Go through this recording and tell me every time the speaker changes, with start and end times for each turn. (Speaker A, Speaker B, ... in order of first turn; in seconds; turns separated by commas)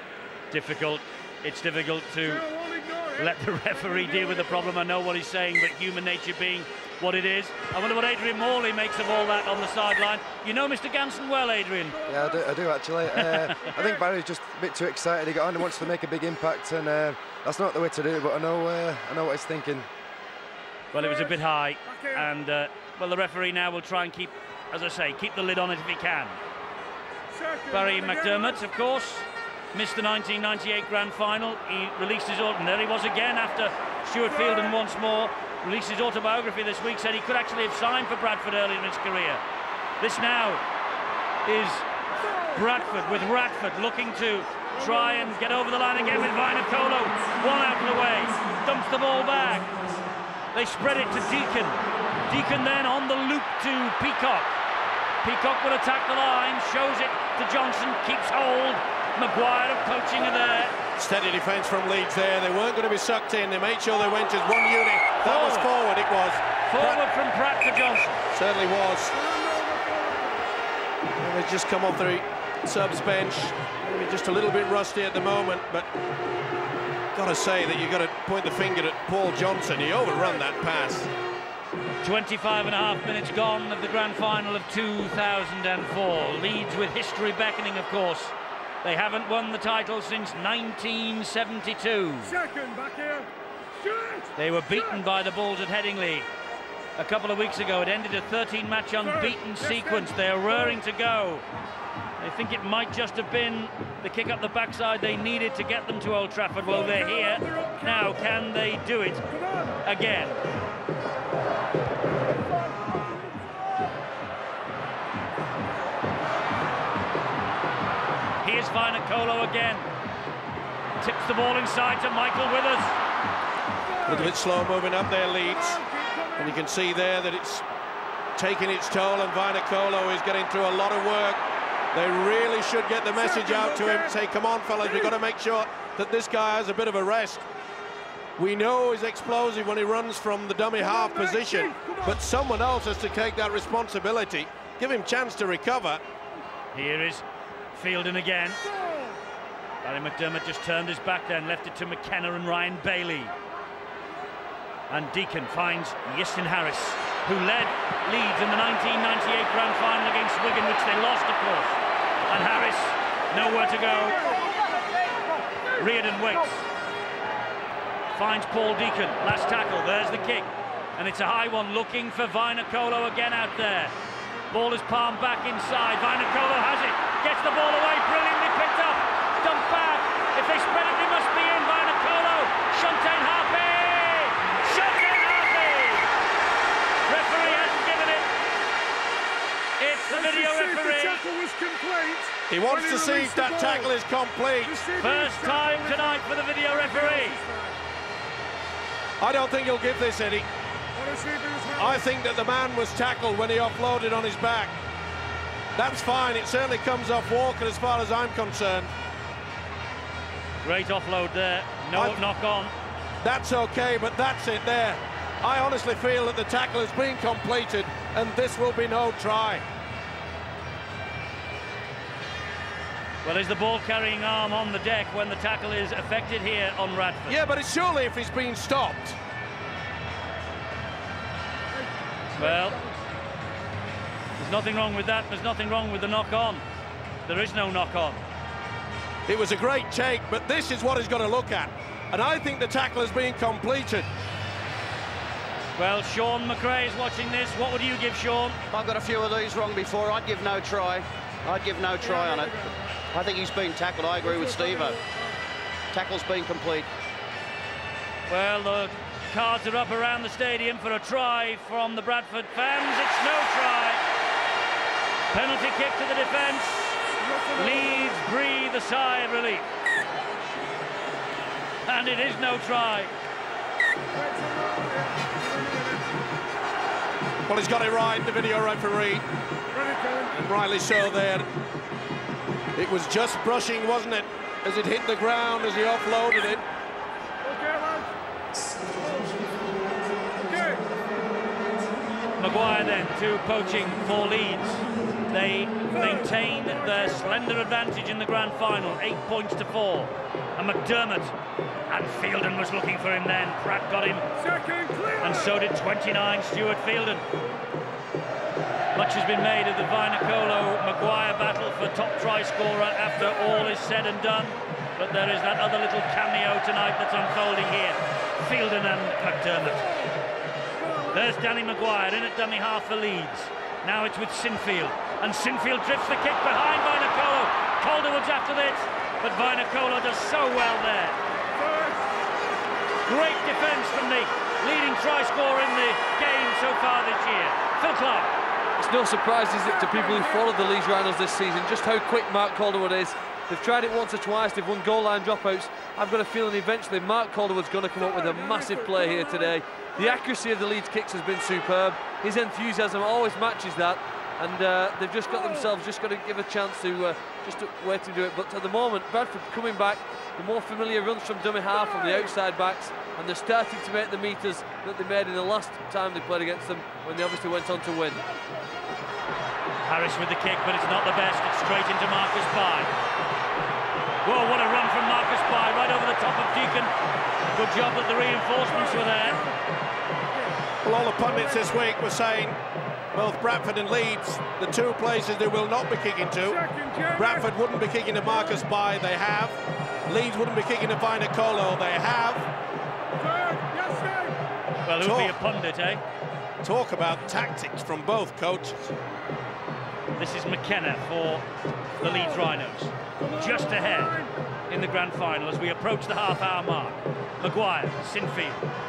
Speaker A: 0.5-2.4, Speaker B: 2.2-4.8, Speaker A: 3.2-12.0, Speaker B: 11.9-12.6, Speaker C: 12.1-19.9, Speaker A: 13.1-13.6, Speaker B: 13.5-14.0, Speaker B: 20.9-22.3, Speaker A: 20.9-26.4, Speaker B: 27.3-28.6, Speaker A: 27.7-39.4, Speaker B: 34.2-34.8, Speaker A: 40.0-40.6, Speaker A: 41.4-41.9, Speaker B: 42.2-43.3, Speaker A: 42.5-49.7, Speaker B: 44.7-45.4, Speaker B: 46.3-46.9, Speaker A: 50.5-54.6, Speaker A: 55.2-60.7, Speaker D: 61.0-67.0, Speaker A: 65.2-65.7, Speaker A: 66.7-68.2, Speaker D: 68.3-69.2, Speaker B: 69.1-70.5, Speaker D: 71.2-75.9, Speaker D: 77.1-81.1, Speaker A: 82.0-92.3, Speaker B: 92.2-95.0, Speaker A: 94.3-96.3, Speaker A: 97.0-101.4, Speaker B: 99.0-100.8, Speaker A: 102.2-109.3, Speaker B: 106.6-108.3, Speaker B: 109.3-109.8, Speaker A: 109.8-110.4, Speaker B: 112.5-113.6, Speaker A: 118.4-119.9, Speaker A: 121.0-123.0, Speaker B: 123.8-124.3, Speaker D: 124.1-125.8, Speaker B: 125.4-126.6, Speaker D: 126.4-127.6, Speaker D: 128.3-131.4, Speaker D: 131.9-137.4, Speaker B: 133.1-134.1, Speaker B: 134.8-135.1, Speaker D: 138.4-146.0, Speaker B: 140.8-142.2, Speaker A: 146.7-147.2, Speaker A: 147.7-148.6, Speaker B: 148.6-149.2, Speaker A: 149.8-153.3, Speaker A: 154.9-164.2, Speaker B: 163.9-164.5, Speaker A: 165.8-166.7, Speaker A: 168.1-173.9, Speaker A: 174.5-186.1, Speaker A: 187.1-188.3, Speaker A: 189.8-191.2, Speaker B: 190.1-193.9, Speaker D: 192.5-194.8, Speaker B: 194.6-197.8, Speaker A: 195.0-197.4, Speaker D: 199.2-200.5, Speaker B: 200.9-202.1, Speaker D: 201.8-204.8, Speaker D: 205.7-208.9, Speaker A: 210.6-212.7, Speaker D: 211.9-212.2, Speaker D: 213.2-219.6, Speaker A: 223.2-227.4, Speaker D: 227.3-229.2, Speaker B: 231.7-233.0, Speaker A: 232.4-232.8, Speaker A: 234.4-236.6, Speaker A: 237.2-238.2, Speaker D: 239.2-244.1, Speaker A: 245.8-248.6, Speaker E: 248.7-252.6, Speaker B: 252.0-253.0, Speaker E: 253.1-255.0, Speaker B: 254.2-255.4, Speaker E: 255.9-256.9, Speaker A: 258.3-264.0, Speaker A: 265.3-267.0, Speaker B: 267.2-268.2, Speaker A: 267.6-269.6, Speaker A: 271.9-273.1, Speaker B: 274.1-276.2, Speaker D: 277.5-279.2, Speaker B: 279.7-280.3, Speaker D: 280.3-281.5, Speaker D: 282.7-286.6, Speaker B: 287.4-288.1, Speaker B: 290.3-290.9, Speaker A: 292.4-301.3, Speaker B: 295.9-297.4, Speaker A: 301.9-304.2, Speaker B: 304.4-305.6, Speaker A: 305.2-307.2, Speaker A: 308.9-319.9, Speaker B: 313.2-313.8, Speaker B: 319.7-320.1, Speaker B: 320.8-321.4, Speaker A: 321.1-331.2, Speaker B: 331.5-332.1, Speaker A: 333.1-338.3, Speaker F: 338.8-368.2, Speaker B: 339.6-340.6, Speaker B: 348.0-350.2, Speaker B: 361.7-362.3, Speaker B: 368.3-369.0, Speaker A: 369.8-372.9, Speaker A: 374.2-376.9, Speaker A: 377.5-379.4, Speaker B: 378.7-379.6, Speaker B: 380.3-380.6, Speaker D: 380.8-382.6, Speaker B: 381.2-381.7, Speaker D: 383.1-386.6, Speaker B: 386.4-387.5, Speaker D: 387.1-392.5, Speaker B: 388.2-388.6, Speaker B: 393.2-394.4, Speaker A: 394.8-396.0, Speaker D: 395.0-395.3, Speaker D: 396.6-398.9, Speaker A: 400.2-401.4, Speaker A: 402.0-404.1, Speaker B: 402.0-402.4, Speaker B: 403.2-404.3, Speaker A: 404.7-408.6